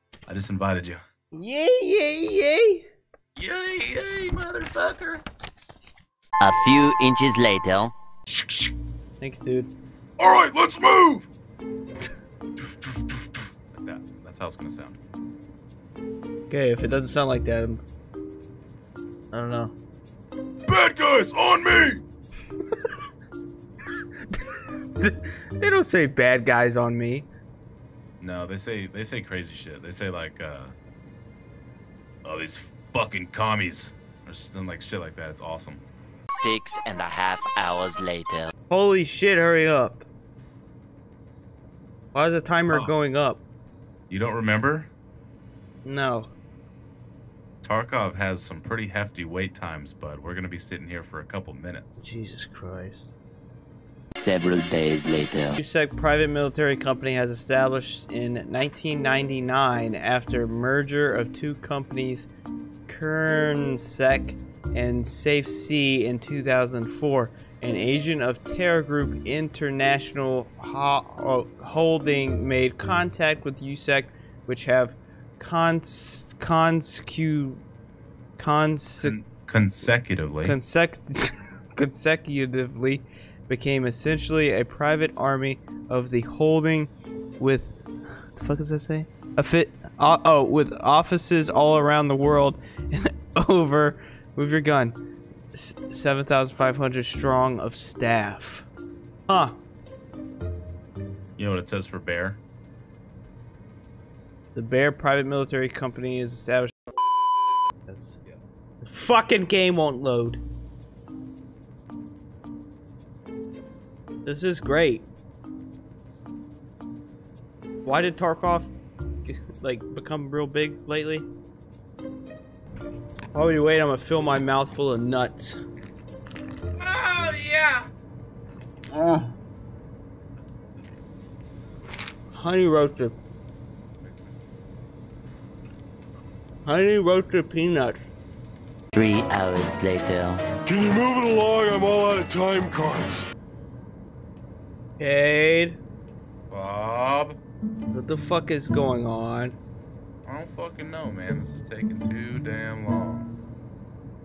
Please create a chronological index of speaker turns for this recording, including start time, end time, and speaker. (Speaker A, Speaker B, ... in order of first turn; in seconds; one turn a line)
Speaker A: 0.3-1.0
Speaker B: 1.3-2.8
Speaker A: 3.4-5.2
Speaker C: 6.4-7.9
Speaker A: 8.3-8.7
Speaker B: 9.2-9.7
Speaker A: 10.2-11.2
Speaker A: 13.7-15.0
Speaker B: 16.5-17.8
Speaker B: 19.3-19.7
Speaker D: 20.7-21.7
Speaker A: 20.7-22.0
Speaker B: 25.0-27.3
Speaker A: 28.2-30.8
Speaker A: 32.2-35.8
Speaker C: 36.3-38.5
Speaker B: 38.7-40.0
Speaker B: 42.1-43.4
Speaker A: 42.7-42.9
Speaker A: 44.1-44.9
Speaker B: 45.8-46.3
Speaker A: 47.6-51.9
Speaker B: 52.0-53.1
Speaker C: 54.2-55.6
Speaker B: 55.6-62.3
Speaker B: 62.9-77.6
Speaker B: 78.4-79.2
Speaker A: 79.0-80.6
Speaker B: 80.4-87.8
Speaker B: 88.3-95.0
Speaker B: 95.5-98.7
Speaker B: 99.3-99.6
Speaker A: 101.4-102.4
Speaker B: 104.5-106.7
Speaker B: 107.8-108.2
Speaker B: 108.8-110.4
Speaker B: 114.2-115.1
Speaker B: 117.8-118.7
Speaker B: 119.2-121.3
Speaker B: 123.3-125.6
Speaker A: 126.8-127.9
Speaker B: 128.9-129.3
Speaker B: 132.3-133.2
Speaker A: 134.0-134.3
Speaker B: 136.6-138.0
Speaker C: 138.9-140.4
Speaker D: 140.7-143.2
Speaker B: 145.0-145.8
Speaker A: 146.5-147.4
Speaker B: 147.9-149.6
Speaker A: 150.2-153.3